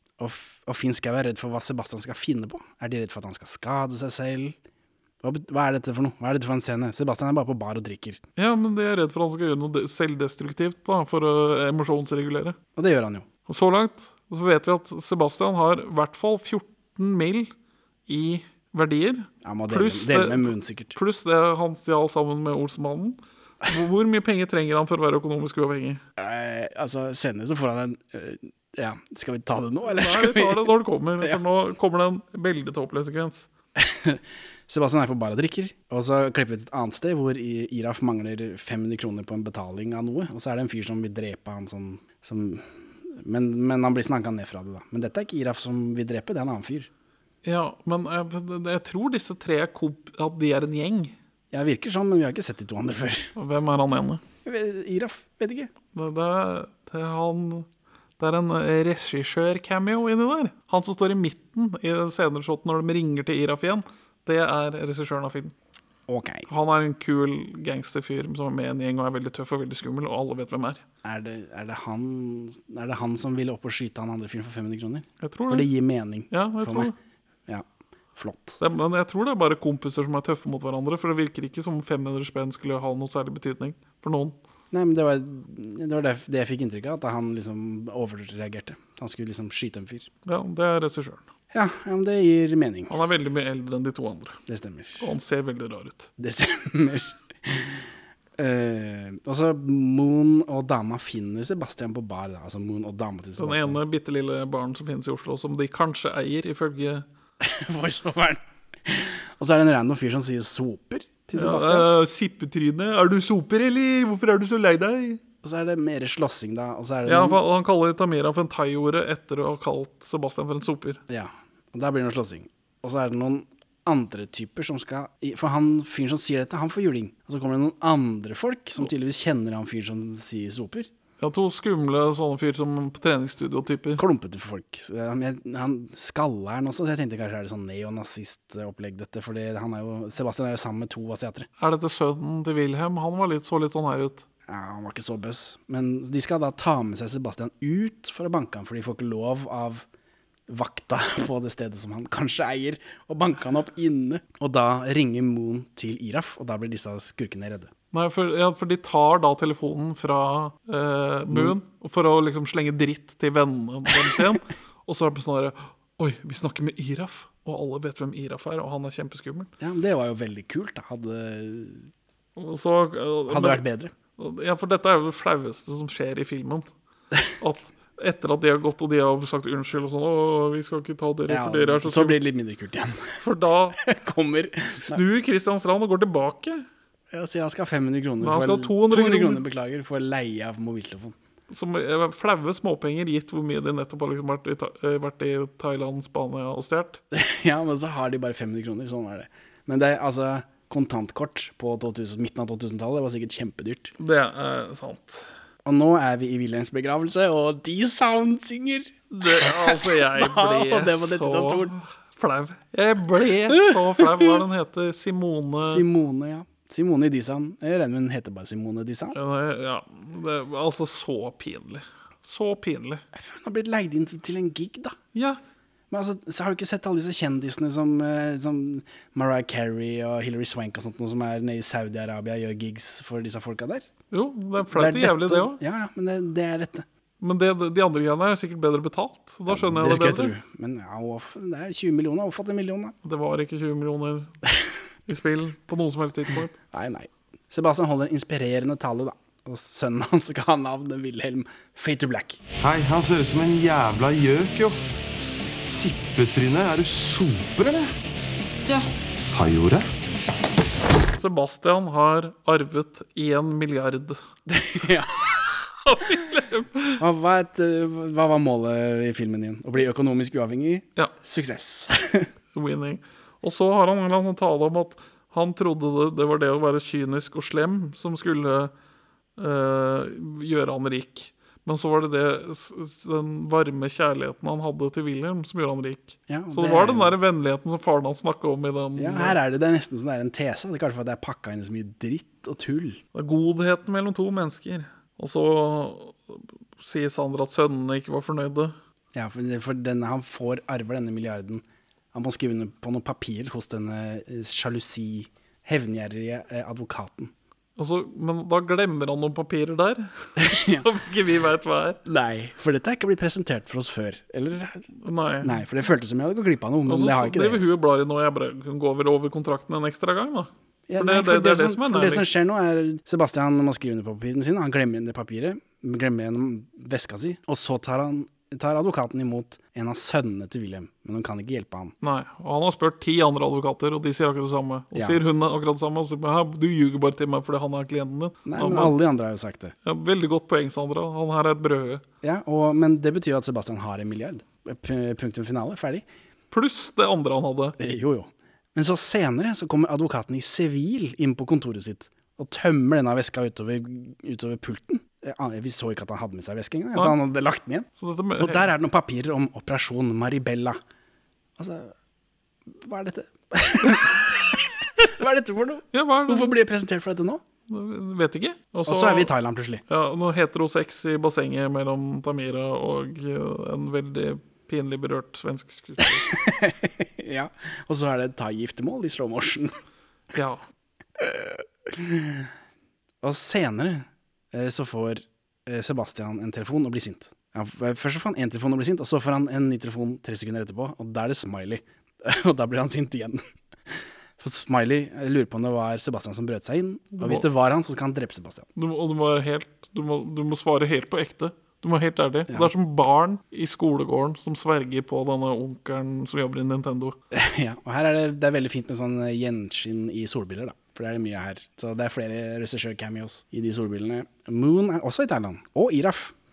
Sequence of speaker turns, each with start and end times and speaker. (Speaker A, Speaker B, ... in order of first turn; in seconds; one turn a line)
Speaker A: 0.2-4.6
Speaker A: 5.2-8.2
Speaker B: 8.4-12.6
Speaker A: 12.8-13.3
Speaker B: 13.5-17.5
Speaker B: 18.1-26.0
Speaker A: 19.4-21.0
Speaker A: 26.2-31.4
Speaker B: 29.9-33.5
Speaker A: 33.8-46.9
Speaker B: 47.4-51.1
Speaker A: 51.5-53.3
Speaker B: 53.4-54.2
Speaker A: 54.5-55.7
Speaker B: 55.9-57.7
Speaker B: 58.2-65.5
Speaker A: 66.1-66.5
Speaker B: 66.5-70.8
Speaker A: 71.0-76.9
Speaker B: 75.2-75.7
Speaker B: 76.3-77.0
Speaker A: 78.2-78.6
Speaker B: 78.6-84.4
Speaker A: 84.7-90.1
Speaker B: 90.2-91.2
Speaker A: 91.5-92.9
Speaker B: 92.9-94.4
Speaker A: 94.5-95.1
Speaker B: 95.0-96.1
Speaker A: 96.2-97.8
Speaker A: 98.4-103.8
Speaker B: 103.4-107.1
Speaker A: 107.4-111.9
Speaker B: 111.3-115.2
Speaker A: 115.4-117.4
Speaker B: 117.1-121.0
Speaker A: 121.1-130.9
Speaker B: 131.2-134.0
Speaker A: 134.0-141.5
Speaker B: 141.6-144.2
Speaker A: 144.5-149.9
Speaker A: 150.5-157.7
Speaker B: 157.9-169.5
Speaker A: 161.3-161.6
Speaker A: 169.6-171.9
Speaker B: 172.4-173.6
Speaker A: 173.3-173.9
Speaker B: 174.2-176.7
Speaker B: 177.4-182.2
Speaker A: 181.3-183.2
Speaker B: 183.2-183.8
Speaker A: 183.8-185.0
Speaker B: 184.8-186.7
Speaker A: 187.1-191.2
Speaker B: 188.2-189.4
Speaker B: 191.5-197.0
Speaker A: 197.1-203.9
Speaker B: 204.0-205.3
Speaker A: 205.7-211.7
Speaker B: 209.1-215.8
Speaker A: 215.7-219.2
Speaker B: 219.1-223.0
Speaker A: 223.1-225.0
Speaker B: 225.1-225.4
Speaker A: 225.9-233.9
Speaker B: 234.1-235.6
Speaker A: 234.7-236.8
Speaker B: 237.2-240.3
Speaker A: 239.5-242.9
Speaker B: 243.0-244.3
Speaker B: 245.1-246.6
Speaker A: 246.7-252.4
Speaker C: 252.6-254.8
Speaker C: 255.4-257.9
Speaker C: 259.3-259.9
Speaker B: 261.1-264.2
Speaker A: 264.5-265.3
Speaker B: 265.4-267.0
Speaker A: 267.0-272.3
Speaker B: 272.5-278.7
Speaker B: 279.4-289.4
Speaker A: 286.3-287.2
Speaker A: 289.0-293.0
Speaker B: 293.1-298.8
Speaker A: 299.1-307.3
Speaker B: 307.8-312.0
Speaker A: 310.4-310.9
Speaker A: 312.1-314.9
Speaker B: 315.0-315.6
Speaker A: 315.4-317.7
Speaker B: 316.9-322.3
Speaker A: 320.9-331.9
Speaker B: 332.0-338.9
Speaker A: 334.9-335.2
Speaker A: 338.4-339.8
Speaker B: 339.9-342.0
Speaker A: 342.2-346.1
Speaker B: 346.5-347.8
Speaker A: 347.8-360.8
Speaker B: 358.0-358.7
Speaker A: 361.6-361.9
Speaker A: 362.7-367.4
Speaker B: 363.9-364.3
Speaker B: 365.9-366.5
Speaker B: 367.7-369.3
Speaker A: 368.9-369.8
Speaker B: 369.9-376.3
Speaker A: 376.0-379.8
Speaker B: 380.3-380.6
Speaker A: 381.2-382.5
Speaker A: 383.2-393.4
Speaker A: 394.4-398.7
Speaker B: 397.2-397.4
Speaker B: 398.8-407.2
Speaker A: 407.3-416.3